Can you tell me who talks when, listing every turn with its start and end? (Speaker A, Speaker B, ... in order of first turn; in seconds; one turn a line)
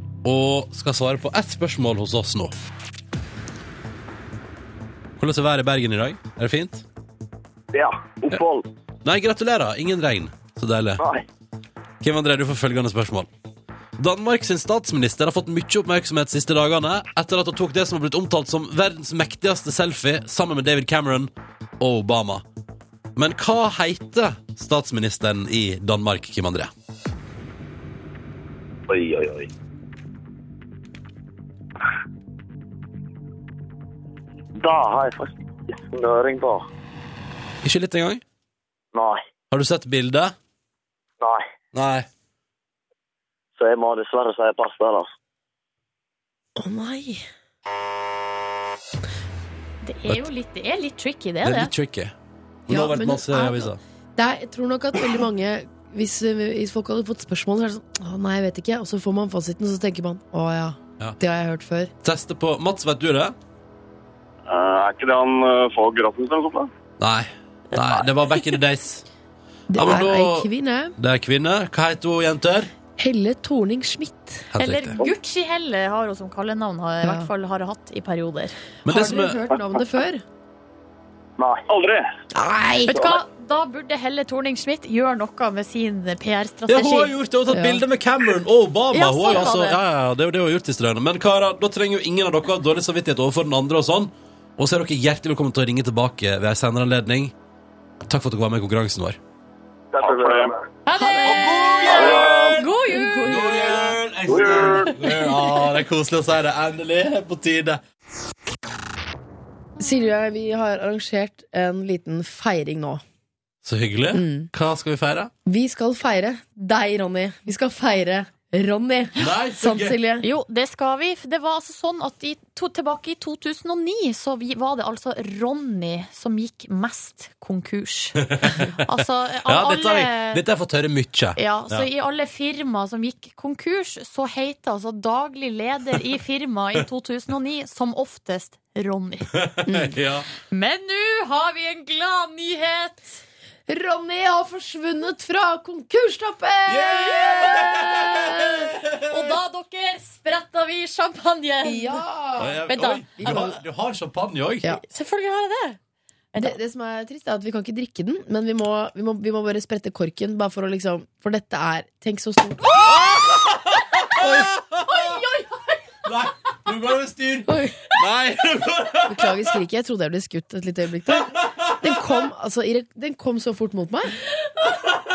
Speaker A: 0.2-2.5
Speaker A: 5.2-6.8
Speaker B: 7.7-8.7
Speaker A: 9.0-11.0
Speaker B: 11.0-11.2
Speaker A: 12.0-13.3
Speaker A: 14.0-22.4
Speaker A: 23.1-26.7
Speaker B: 28.9-29.5
Speaker B: 34.6-36.6
Speaker A: 37.6-38.2
Speaker B: 38.9-39.2
Speaker A: 39.5-40.3
Speaker A: 41.7-42.1
Speaker B: 43.6-45.1
Speaker C: 46.5-47.2
Speaker D: 49.8-51.7
Speaker A: 51.4-52.1
Speaker A: 52.7-53.8
Speaker C: 52.7-61.9
Speaker A: 62.0-63.3
Speaker E: 64.5-66.7
Speaker A: 67.0-69.0
Speaker C: 69.7-70.9
Speaker A: 69.7-72.7
Speaker C: 73.0-74.5
Speaker A: 74.5-75.0
Speaker D: 74.6-78.5
Speaker C: 77.0-77.3
Speaker A: 78.8-79.4
Speaker C: 78.8-80.2
Speaker B: 81.4-81.7
Speaker E: 81.7-82.0
Speaker C: 82.3-83.0
Speaker D: 82.9-87.1
Speaker A: 86.7-97.3
Speaker C: 87.5-87.8
Speaker D: 88.9-89.8
Speaker A: 98.1-99.2
Speaker B: 99.9-100.5
Speaker E: 100.0-100.5
Speaker D: 100.8-103.7
Speaker A: 101.2-102.7
Speaker C: 102.9-103.9
Speaker A: 103.2-107.8
Speaker E: 104.3-104.9
Speaker B: 104.3-104.8
Speaker C: 109.8-113.0
Speaker A: 113.6-115.3
Speaker C: 114.1-114.5
Speaker C: 115.5-120.2
Speaker A: 119.2-120.0
Speaker D: 120.2-130.4
Speaker A: 128.2-128.7
Speaker A: 129.4-131.9
Speaker D: 131.4-139.3
Speaker A: 139.3-140.2
Speaker C: 139.7-140.0
Speaker D: 140.5-143.2
Speaker C: 143.7-148.7
Speaker A: 146.7-149.1
Speaker D: 147.5-147.8
Speaker D: 149.1-152.0
Speaker C: 151.6-152.6
Speaker A: 152.4-154.7
Speaker D: 152.7-153.4
Speaker C: 153.2-153.6
Speaker D: 154.8-155.8
Speaker C: 156.4-162.6
Speaker A: 162.9-165.1
Speaker C: 164.2-164.5
Speaker D: 164.8-165.8
Speaker A: 166.0-169.4
Speaker C: 167.5-167.8
Speaker C: 169.1-174.2
Speaker A: 171.2-171.8